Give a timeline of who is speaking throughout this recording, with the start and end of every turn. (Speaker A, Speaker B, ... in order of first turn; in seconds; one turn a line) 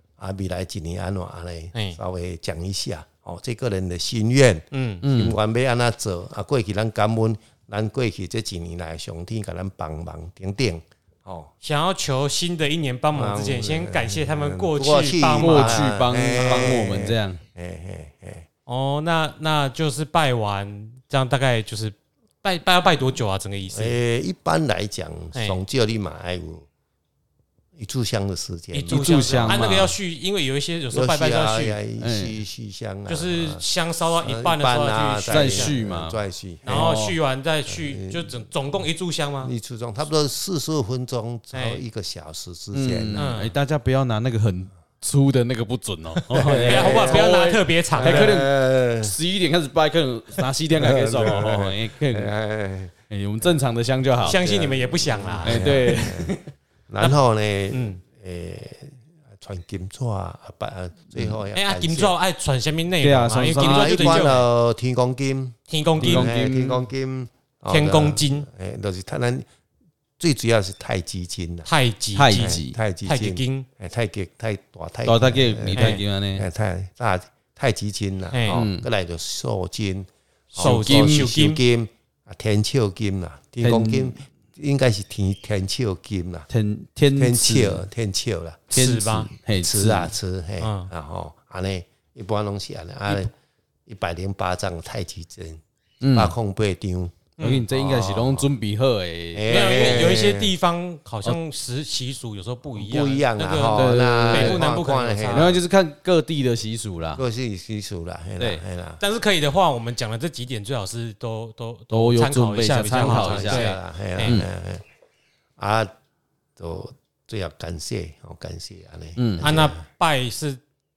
Speaker A: 0.2-11.5
Speaker B: 4.7-5.0
Speaker C: 5.0-5.4
Speaker B: 11.6-15.9
Speaker A: 13.1-18.5
Speaker C: 15.4-17.4
Speaker B: 16.4-16.8
Speaker B: 18.7-24.0
Speaker A: 23.7-26.7
Speaker A: 27.8-29.7
Speaker B: 28.7-31.8
Speaker C: 28.9-30.0
Speaker A: 30.9-33.6
Speaker C: 32.0-32.4
Speaker B: 33.1-35.7
Speaker A: 34.2-36.9
Speaker C: 35.3-37.2
Speaker B: 36.6-39.5
Speaker A: 37.7-38.5
Speaker A: 39.4-43.3
Speaker B: 41.5-41.8
Speaker C: 42.7-52.3
Speaker B: 43.1-43.5
Speaker A: 46.1-47.3
Speaker B: 46.6-48.4
Speaker A: 47.9-49.1
Speaker A: 50.7-52.9
Speaker C: 53.1-54.4
Speaker B: 54.2-55.6
Speaker A: 54.2-62.1
Speaker C: 55.4-56.5
Speaker B: 57.7-58.0
Speaker B: 61.5-64.5
Speaker C: 63.0-64.3
Speaker A: 63.5-69.5
Speaker B: 65.7-66.3
Speaker C: 66.0-66.8
Speaker B: 67.7-68.5
Speaker A: 70.2-71.7
Speaker B: 71.7-73.7
Speaker C: 72.2-72.8
Speaker A: 72.3-86.5
Speaker C: 75.0-76.5
Speaker B: 75.7-76.0
Speaker B: 78.3-78.6
Speaker C: 78.5-78.8
Speaker B: 80.5-81.6
Speaker C: 80.6-81.3
Speaker C: 83.6-84.1
Speaker C: 86.5-87.8
Speaker A: 87.1-88.7
Speaker B: 88.7-89.3
Speaker C: 88.7-90.1
Speaker A: 89.5-93.3
Speaker B: 90.6-90.9
Speaker A: 93.8-95.6
Speaker C: 96.0-96.3
Speaker A: 96.1-98.5
Speaker B: 97.4-97.7
Speaker C: 97.4-100.0
Speaker A: 99.3-100.5
Speaker B: 99.5-105.6
Speaker A: 102.7-105.6
Speaker C: 103.7-104.6
Speaker C: 105.3-107.2
Speaker A: 107.2-109.0
Speaker B: 109.0-114.4
Speaker C: 111.9-113.7
Speaker A: 112.9-114.8
Speaker A: 115.6-115.9
Speaker A: 116.6-119.8
Speaker C: 119.2-119.5
Speaker B: 119.4-120.6